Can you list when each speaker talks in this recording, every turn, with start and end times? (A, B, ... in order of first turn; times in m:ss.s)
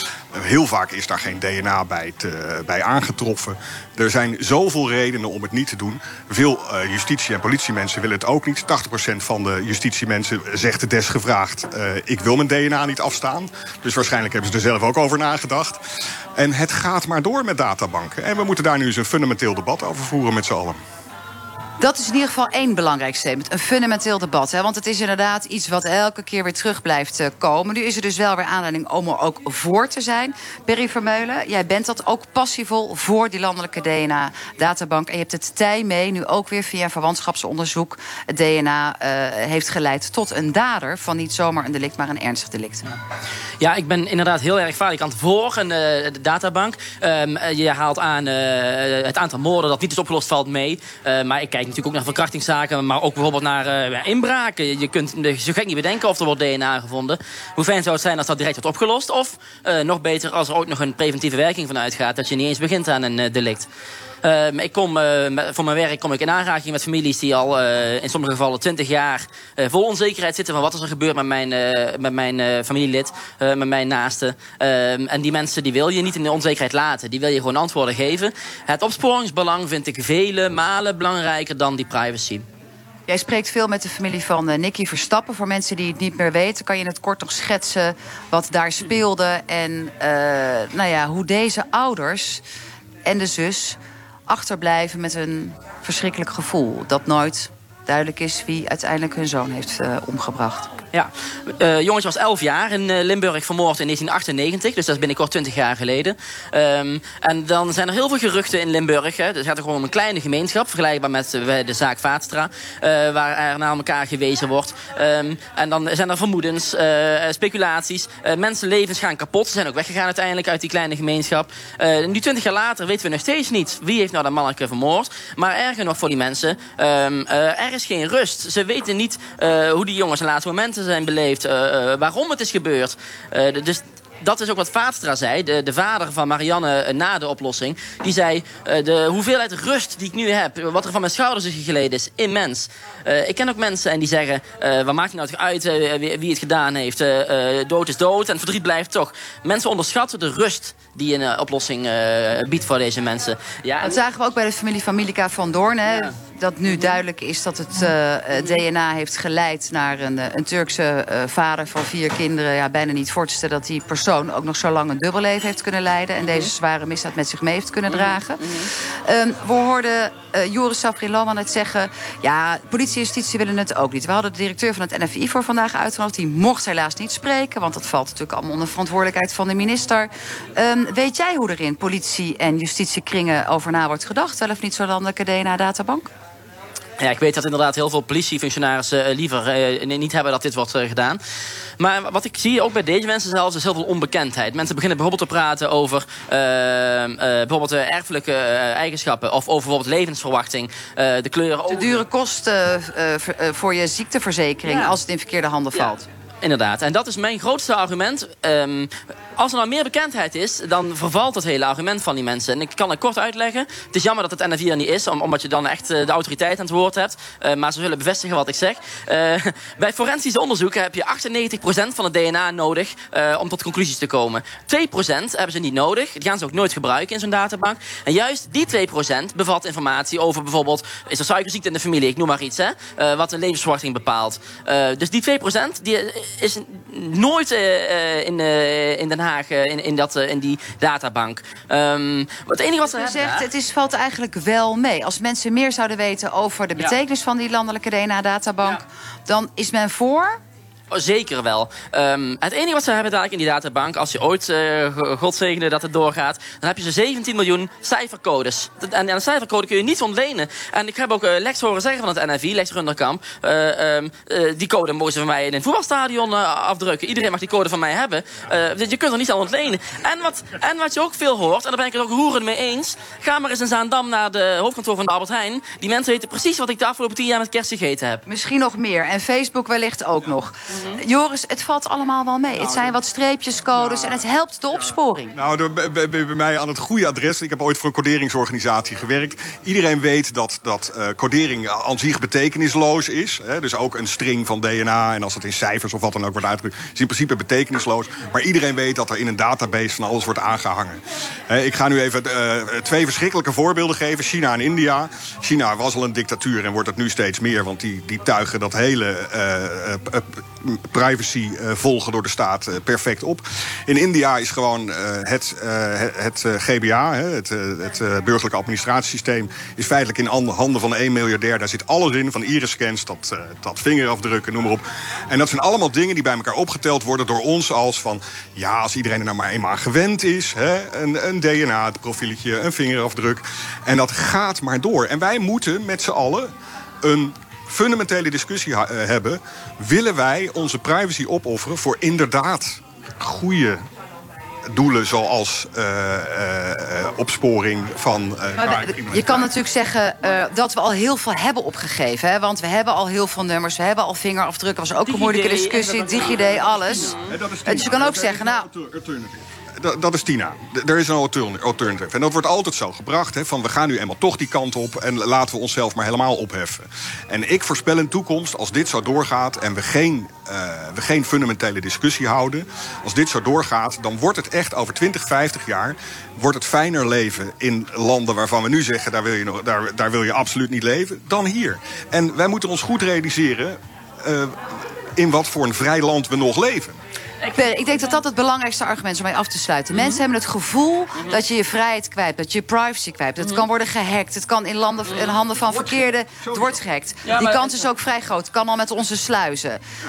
0:00.4-0:15.8 A
0:16.4-0:20.8 A
0:21.8-0:42.8 B
0:43.6-1:03.7 C
1:04.2-1:22.4 C
1:23.1-1:32.4 B
1:33.0-1:40.7 B
1:40.9-2:34.0 C
2:33.8-3:06.1 B
2:36.7-2:37.0 C
3:07.0-3:11.2 C
3:11.8-3:22.0 C
3:21.7-3:26.0 B
3:24.6-3:25.0 C
3:25.7-4:03.5 C
4:02.8-4:10.4 B
4:10.9-4:38.2 C
4:38.3-4:45.3 B
4:43.8-4:44.2 A
4:45.3-5:43.8 A
5:44.7-5:49.6 A
5:48.6-5:58.7 B
5:55.0-5:57.1 C
5:56.9-6:24.6 A
6:25.2-6:27.0 A
6:27.4-6:28.1 C
6:27.5-6:39.8 B
6:29.9-6:30.2 C
6:35.1-6:35.4 C
6:36.4-6:36.8 A
6:37.3-6:37.8 C